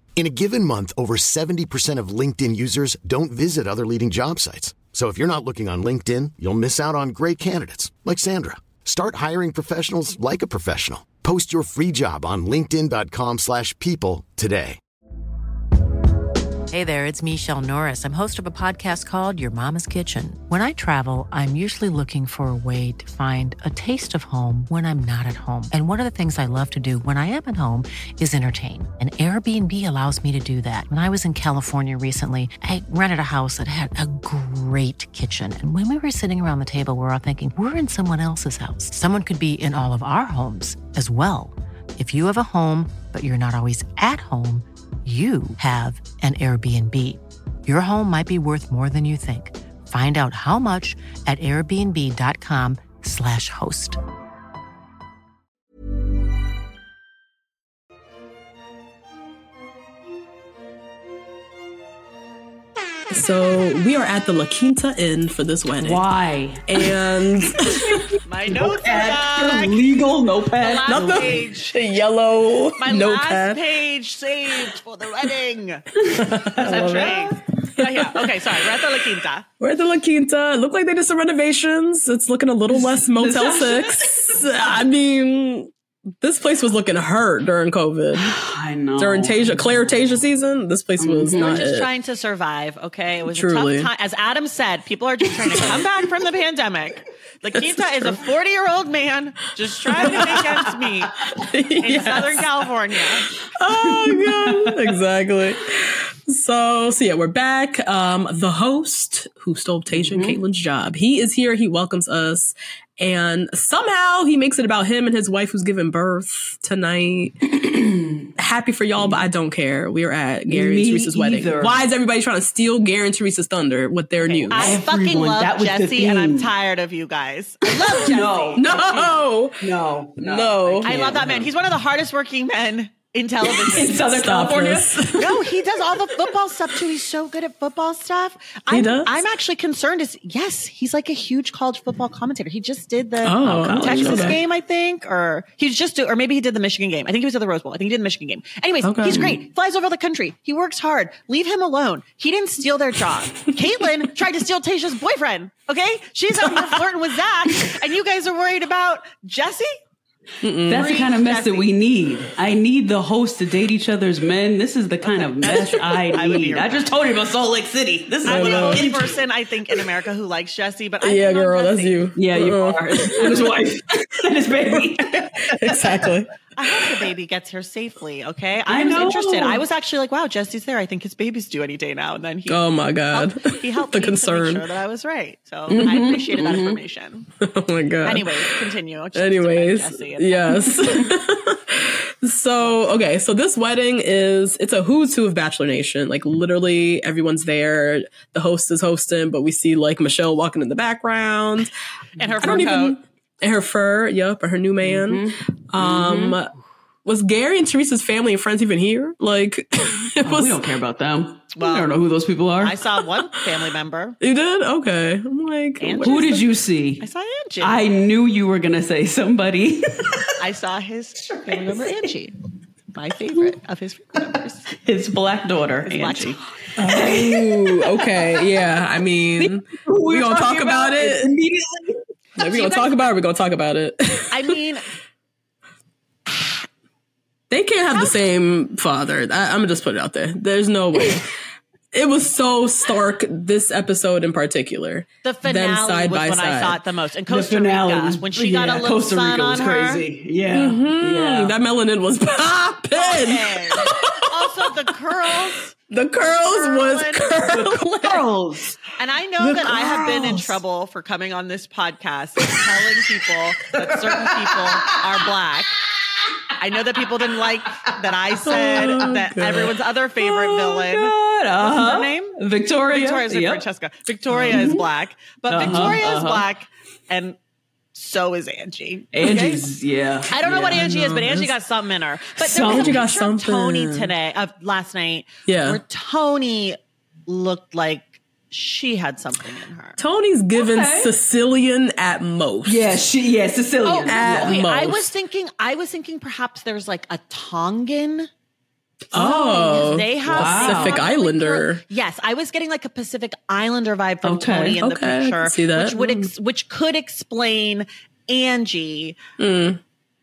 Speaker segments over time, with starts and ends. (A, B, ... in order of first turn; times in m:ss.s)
0:00.2-0:14.8 A
0:16.7-0:54.0 B
1:03.1-1:06.0 C
1:05.8-1:06.8 D
1:06.7-1:08.0 C
1:07.9-1:11.4 D
1:08.2-1:09.9 E
1:10.6-1:11.7 E
1:10.8-1:13.6 C
1:12.8-1:15.8 E
1:16.1-1:18.4 C
1:16.2-1:17.3 D
1:16.6-1:19.4 E
1:19.6-1:25.7 C
1:22.7-1:24.4 D
1:26.2-1:28.3 C
1:28.1-1:29.8 D
1:29.0-1:31.9 C
1:31.0-1:31.6 D
1:31.3-1:41.2 E
1:33.3-1:33.9 C
1:37.5-1:38.2 C
1:40.0-1:40.6 C
1:41.3-1:42.5 C
1:41.8-1:43.3 E
1:43.4-1:57.5 C
1:44.0-1:44.7 D
1:49.9-1:50.4 D
1:57.6-1:58.3 D
1:58.4-2:04.8 C
2:00.5-2:01.8 D
2:04.2-2:09.2 E
2:04.5-2:06.5 D
2:07.6-2:08.7 D
2:08.6-2:11.0 C
2:09.6-2:11.5 D
2:10.8-2:14.2 E
2:13.4-2:15.1 D
2:14.0-2:15.6 C
2:15.1-2:39.7 E
2:18.7-2:19.2 C
2:23.2-2:24.4 C
2:23.4-2:24.4 D
2:28.8-2:29.4 C
2:40.4-2:40.9 C
2:40.6-2:49.2 D
2:40.7-2:41.7 E
2:45.0-2:46.9 E
2:48.2-2:48.9 C
2:48.2-2:52.1 E
2:51.0-2:53.5 C
2:52.2-2:55.9 D
2:55.5-2:56.3 C
2:56.5-3:07.3 E
2:58.7-2:59.6 D
3:02.5-3:04.7 C
3:05.7-3:06.8 D
3:07.4-3:21.7 C
3:08.0-3:10.6 E
3:12.6-3:13.0 E
3:22.2-3:23.0 E
3:22.4-3:30.6 C
3:24.8-3:26.4 D
3:30.2-3:32.8 D
3:31.6-3:31.9 E
3:32.6-3:34.2 E
3:34.2-3:36.3 C
3:35.8-3:37.8 E
3:36.0-3:37.0 D
3:37.6-3:40.3 D
3:40.4-3:42.3 E
3:41.2-3:41.9 D
3:42.9-3:44.7 E
3:44.8-3:48.3 D
3:45.8-3:46.4 E
3:46.8-3:51.3 C
3:49.4-3:52.0 D
3:52.4-3:53.1 E
3:52.4-3:54.6 C
3:54.3-3:54.8 E
3:56.3-3:56.6 E
3:57.5-4:01.3 C
4:01.9-4:06.8 C
4:05.2-4:10.0 E
4:07.3-4:11.5 D
4:10.5-4:14.7 C
4:12.9-4:17.4 E
4:15.9-4:18.2 C
4:17.5-4:18.8 D
4:19.0-4:25.8 E
4:19.6-4:20.5 D
4:24.0-4:25.2 D
4:26.6-4:37.4 E
4:28.4-4:29.7 C
4:28.4-4:29.1 D
4:30.3-4:30.7 C
4:30.8-4:33.6 D
4:34.3-4:34.6 C
4:34.4-4:34.8 D
4:35.5-4:36.5 D
4:35.6-4:36.0 C
4:37.9-4:39.6 E
4:39.1-4:41.0 D
4:40.3-4:50.0 E
4:40.7-4:41.5 C
4:42.4-4:43.0 D
4:42.6-4:44.1 C
4:45.4-4:45.8 C
4:50.0-4:53.0 C
4:50.5-4:51.1 D
4:52.6-4:54.6 D
4:53.8-4:58.3 E
4:54.0-4:55.1 C
4:59.1-5:09.2 E
4:59.1-5:01.8 C
5:00.3-5:01.1 D
5:04.2-5:04.8 D
5:04.8-5:06.3 C
5:09.4-5:09.8 C